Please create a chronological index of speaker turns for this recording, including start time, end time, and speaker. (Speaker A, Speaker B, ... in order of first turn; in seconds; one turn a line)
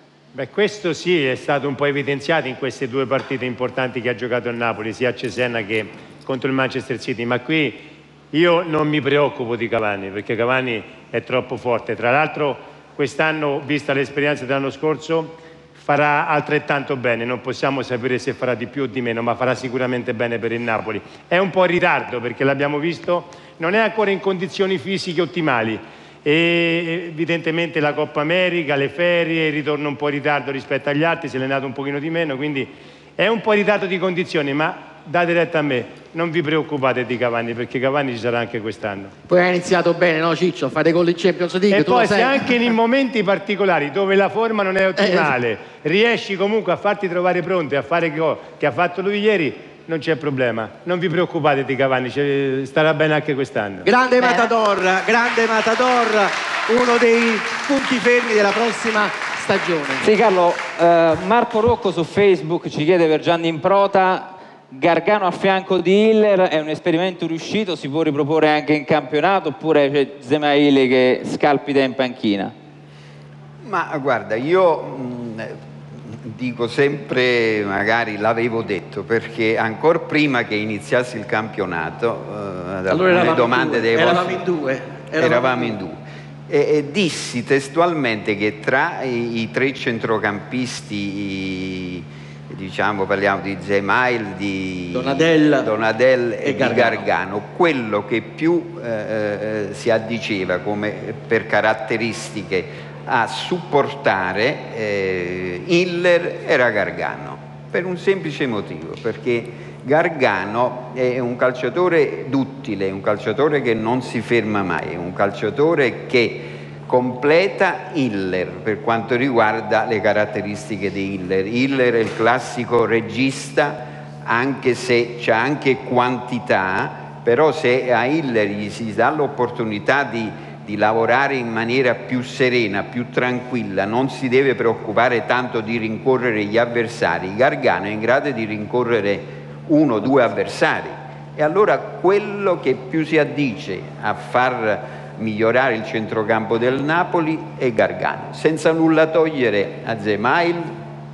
Speaker A: 0.3-39.1
Speaker B: 39.3-42.7
Speaker A: 41.7-53.9
Speaker B: 45.0-45.3
Speaker B: 53.8-60.1
Speaker C: 54.2-54.5
Speaker C: 60.0-72.5
Speaker D: 73.6-75.5
Speaker D: 76.3-84.5
Speaker B: 82.9-85.8
Speaker D: 85.2-86.0
Speaker D: 86.5-150.7
Speaker B: 94.9-95.7
Speaker B: 96.4-97.1